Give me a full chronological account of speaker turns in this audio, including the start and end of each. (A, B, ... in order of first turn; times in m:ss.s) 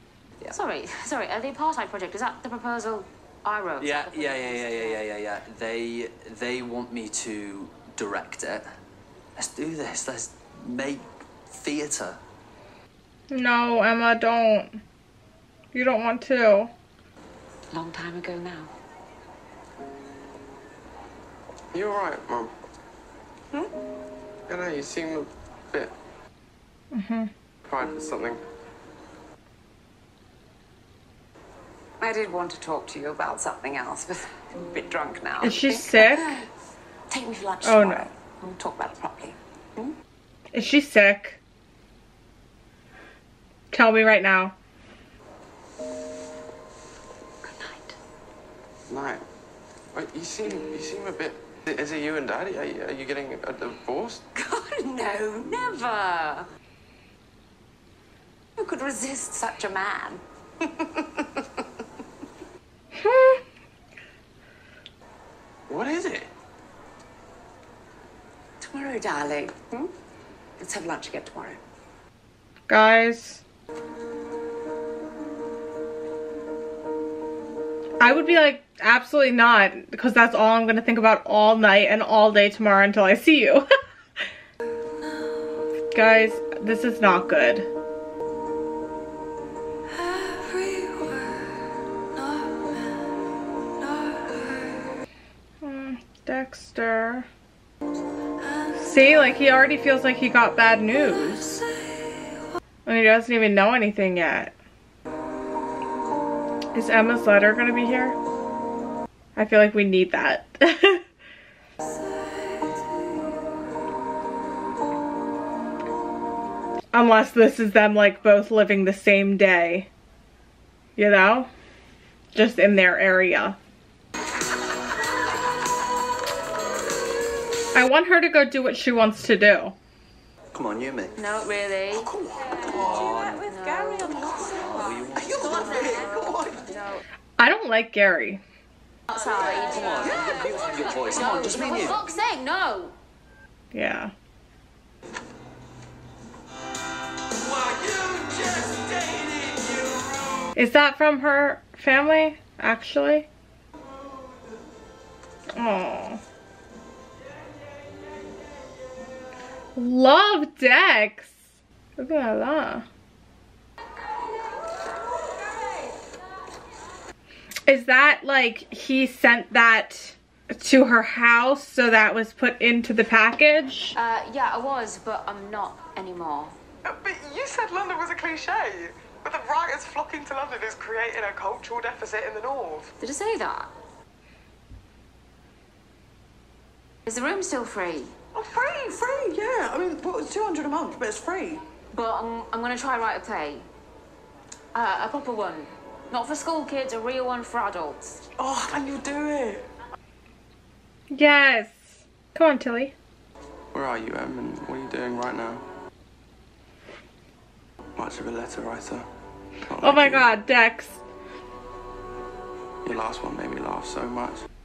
0:00.5-0:05.0 A
0:03.8-0:08.6 B
0:09.4-0:12.2 B
0:13.3-0:14.8 C
0:15.7-0:16.7 C
0:17.7-0:18.7 D
0:21.7-0:22.5 E
0:24.5-0:25.9 E
0:26.9-0:27.3 C
0:27.6-0:28.4 E
0:32.0-0:36.4 D
0:35.4-0:36.3 C
0:37.1-0:39.9 D
0:37.6-0:38.1 C
0:40.5-0:41.4 C
0:43.7-0:44.5 C
0:47.4-0:48.0 D
0:48.9-0:49.2 E
0:49.9-0:54.2 E
0:54.3-0:56.4 D
0:58.6-1:00.2 D
1:03.0-1:03.4 C
1:05.7-1:06.3 E
1:08.6-1:09.9 D
1:10.6-1:11.6 D
1:12.7-1:13.4 C
1:18.0-1:23.6 C
1:25.9-1:27.7 C
1:30.4-1:31.0 D
1:35.6-1:37.3 C
1:38.8-1:41.6 C
1:42.8-1:44.5 C
1:46.7-1:48.2 C
1:49.4-1:51.0 C
1:56.9-1:59.9 C
2:01.0-2:01.5 C
2:02.3-2:03.6 C
2:07.7-2:09.7 C
2:10.5-2:11.1 B
2:11.2-2:12.1 A
2:12.6-2:13.4 B
2:13.3-2:14.5 A
2:14.1-2:16.5 B
2:15.4-2:17.0 A
2:17.4-2:18.4 C
2:19.1-2:23.0 A
2:19.5-2:22.0 B
2:23.7-2:24.1 C
2:30.5-2:33.3 C
2:35.6-2:36.2 C
2:39.8-2:41.4 C
2:42.0-2:42.8 C
2:47.7-2:54.0 C
2:54.0-2:56.6 A
2:56.9-3:02.9 E
3:03.0-3:03.7 A
3:07.0-3:08.1 A
3:08.7-3:11.6 F
3:10.2-3:11.3 E
3:11.9-3:13.7 A
3:14.7-3:18.2 A
3:18.6-3:19.6 F
3:21.1-3:22.9 C
3:23.7-3:25.6 E
3:28.0-3:29.1 E
3:29.6-3:30.3 E
3:29.8-3:31.0 C
3:32.8-3:34.4 E